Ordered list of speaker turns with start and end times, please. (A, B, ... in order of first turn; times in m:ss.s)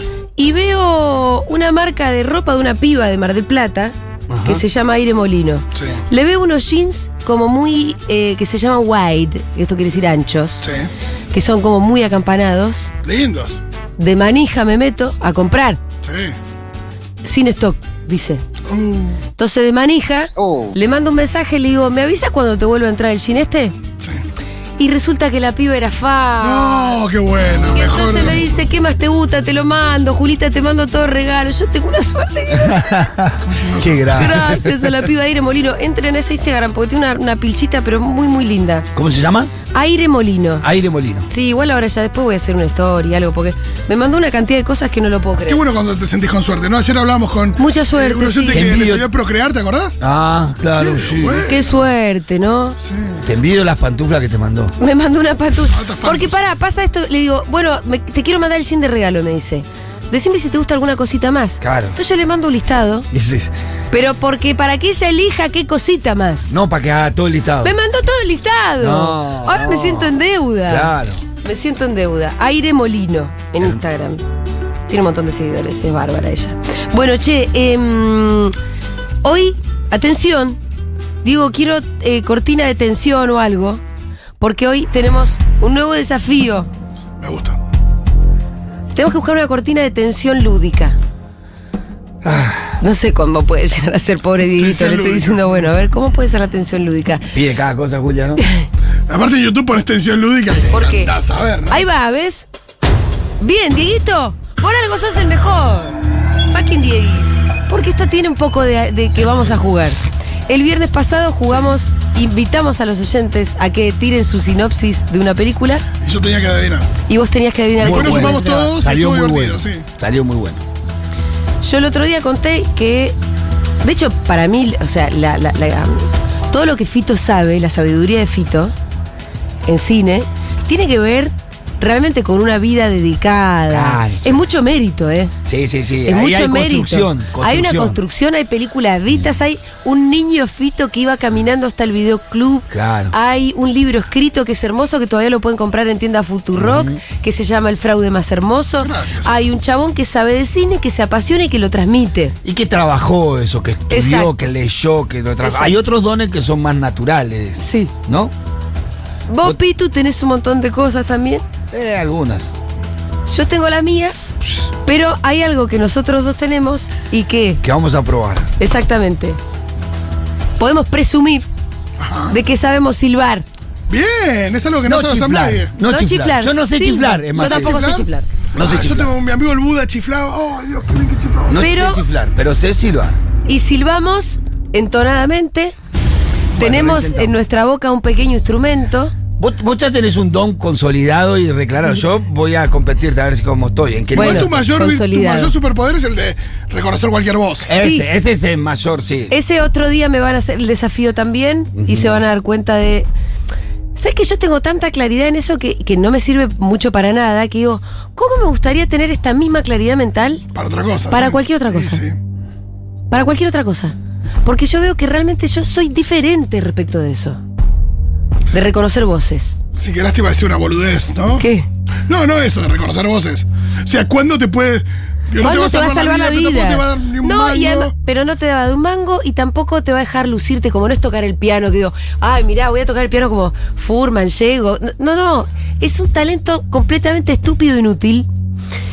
0:00.4-0:10.7 A
0:04.3-0:04.6 B
0:05.7-0:06.0 C
0:10.6-0:10.9 C
0:11.3-0:12.9 A
0:13.0-0:13.6 C
0:14.0-0:15.8 A
0:16.0-0:16.4 C
0:17.2-0:18.4 A
0:18.7-0:19.2 C
0:19.4-0:23.8 A
0:24.8-0:27.0 A
0:26.4-0:28.7 C
0:27.7-0:32.9 A
0:32.5-0:34.9 B
0:33.5-0:34.3 C
0:34.1-0:38.9 A
0:38.9-0:39.5 B
0:39.7-0:40.6 A
0:40.6-0:41.3 B
0:41.3-0:45.6 A
0:45.5-0:50.0 C
0:47.6-0:48.7 A
0:48.5-0:49.0 B
0:50.0-0:51.5 B
0:50.8-0:51.8 C
0:51.4-0:52.8 A
0:52.8-0:53.2 C
0:53.2-0:54.7 B
0:54.8-1:03.1 A
0:55.7-0:56.4 C
1:01.6-1:02.0 B
1:03.1-1:03.5 B
1:03.9-1:06.5 A
1:06.5-1:07.7 B
1:07.6-1:14.2 A
1:08.8-1:11.2 B
1:14.9-1:18.6 A
1:19.2-1:20.6 A
1:21.2-1:23.8 A
1:24.4-1:26.7 A
1:27.2-1:27.6 C
1:28.9-1:31.0 A
1:32.2-1:32.8 B
1:32.8-1:37.3 A
1:34.6-1:35.7 C
1:37.3-1:38.4 B
1:38.4-1:38.7 A
1:39.1-1:41.8 C
1:40.7-1:41.1 A
1:41.7-1:42.5 A
1:43.4-1:46.0 A
1:46.5-1:55.8 A
1:56.0-1:56.9 C
1:57.1-1:58.7 A
1:57.8-2:00.6 B
1:57.8-1:59.9 C
2:01.6-2:03.2 A
2:03.8-2:08.7 A
2:09.6-2:15.3 A
2:13.7-2:14.4 B
2:15.4-2:18.0 B
2:16.0-2:32.4 A
2:22.7-2:23.1 B
2:26.6-2:27.0 B
2:28.8-2:29.3 C
2:32.4-2:38.3 B
2:33.9-2:34.3 A
2:35.4-2:35.8 A
2:37.6-2:37.9 A
2:39.3-2:41.4 A
2:41.7-2:42.6 B
2:43.3-2:47.6 A
2:47.6-2:48.5 B
2:48.6-2:49.4 A
2:50.6-2:51.5 A
2:52.0-2:52.4 C
2:52.3-2:53.4 A
2:53.9-2:55.7 C
2:54.8-2:57.8 B
2:55.8-2:58.3 A
2:57.4-3:01.6 C
2:58.6-2:59.1 B
3:01.5-3:03.2 B
3:01.6-3:02.0 A
3:03.4-3:05.7 A
3:06.6-3:07.4 B
3:06.6-3:09.1 A
3:09.4-3:14.7 B
3:14.1-3:17.7 C
3:14.1-3:15.5 A
3:17.7-3:19.3 B
3:17.7-3:18.1 A
3:19.3-3:23.1 A
3:21.7-3:22.2 B
3:23.9-3:30.4 A
3:30.5-3:32.2 C
3:31.1-3:32.0 A
3:33.1-3:37.4 A
3:38.5-3:39.6 A
3:39.7-3:41.5 C
3:41.4-3:41.7 A
3:42.0-3:47.9 C
3:45.4-3:58.3 A